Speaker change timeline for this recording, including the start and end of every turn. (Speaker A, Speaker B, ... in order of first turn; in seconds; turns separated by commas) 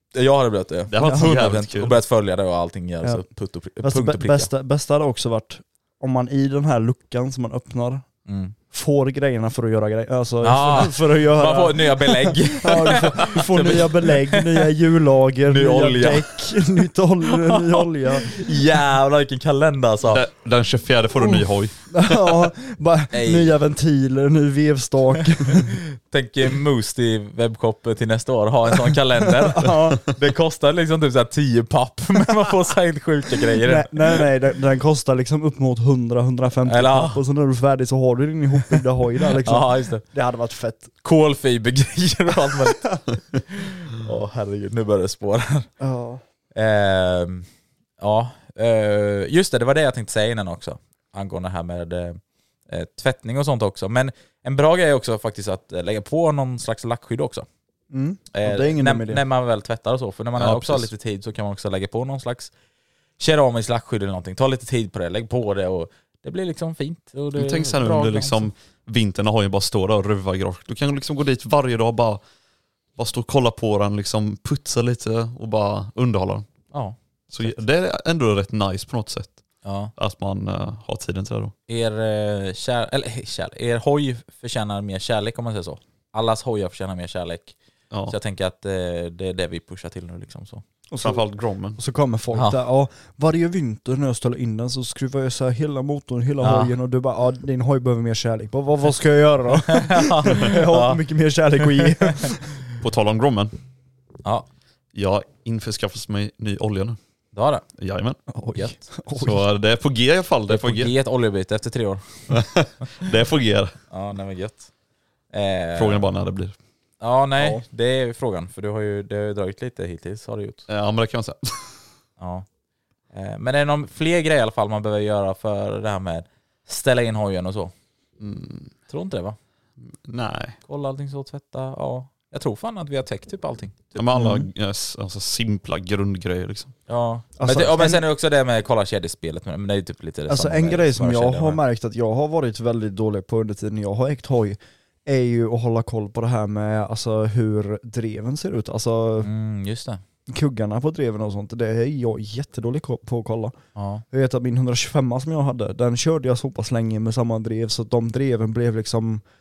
Speaker A: 0.1-4.5, Speaker B: 0.9-1.9, Speaker C: 1.0-1.3, Speaker C: 3.8-8.1, Speaker A: 8.2-8.5, Speaker C: 8.7-18.3, Speaker A: 10.4-14.6, Speaker A: 15.4-16.6, Speaker A: 17.3-20.2, Speaker B: 20.0-22.2, Speaker C: 21.2-25.8, Speaker A: 23.1-23.5, Speaker A: 26.0-34.3, Speaker C: 29.2-30.1, Speaker C: 33.6-40.9, Speaker A: 36.6-37.2, Speaker A: 39.3-40.0, Speaker A: 41.0-45.7, Speaker C: 45.8-46.2, Speaker A: 46.5-47.5, Speaker A: 48.0-57.5, Speaker C: 57.9-59.2, Speaker A: 58.3-62.5, Speaker B: 60.4-60.9, Speaker A: 63.2-68.5, Speaker B: 67.3-72.2, Speaker B: 73.0-76.4, Speaker A: 76.7-77.6, Speaker B: 77.3-79.4, Speaker A: 79.6-79.9, Speaker B: 80.0-81.5, Speaker A: 81.7-87.5, Speaker B: 87.9-88.2, Speaker A: 88.1-90.6, Speaker C: 90.9-91.2, Speaker B: 91.0-91.8, Speaker C: 91.8-102.4, Speaker A: 92.3-92.6, Speaker A: 96.4-96.7, Speaker A: 99.7-101.0, Speaker A: 101.6-102.0, Speaker B: 102.8-103.5, Speaker B: 104.9-107.0, Speaker A: 107.3-107.6, Speaker B: 107.8-108.2, Speaker C: 108.3-109.4, Speaker B: 109.2-110.9, Speaker A: 110.5-112.4, Speaker B: 112.3-113.7, Speaker A: 113.9-114.7, Speaker A: 115.3-116.1, Speaker B: 115.8-116.5, Speaker A: 117.0-120.7, Speaker B: 120.7-121.8, Speaker A: 122.2-122.5, Speaker A: 123.1-127.7, Speaker B: 128.2-128.7, Speaker A: 128.9-129.4, Speaker B: 130.0-130.6, Speaker A: 130.7-133.9, Speaker B: 133.9-136.7, Speaker C: 134.1-134.5, Speaker A: 136.9-141.6, Speaker C: 137.4-138.0, Speaker C: 140.3-149.3, Speaker A: 149.2-150.0, Speaker C: 150.3-153.6, Speaker A: 153.7-154.0, Speaker C: 154.1-159.2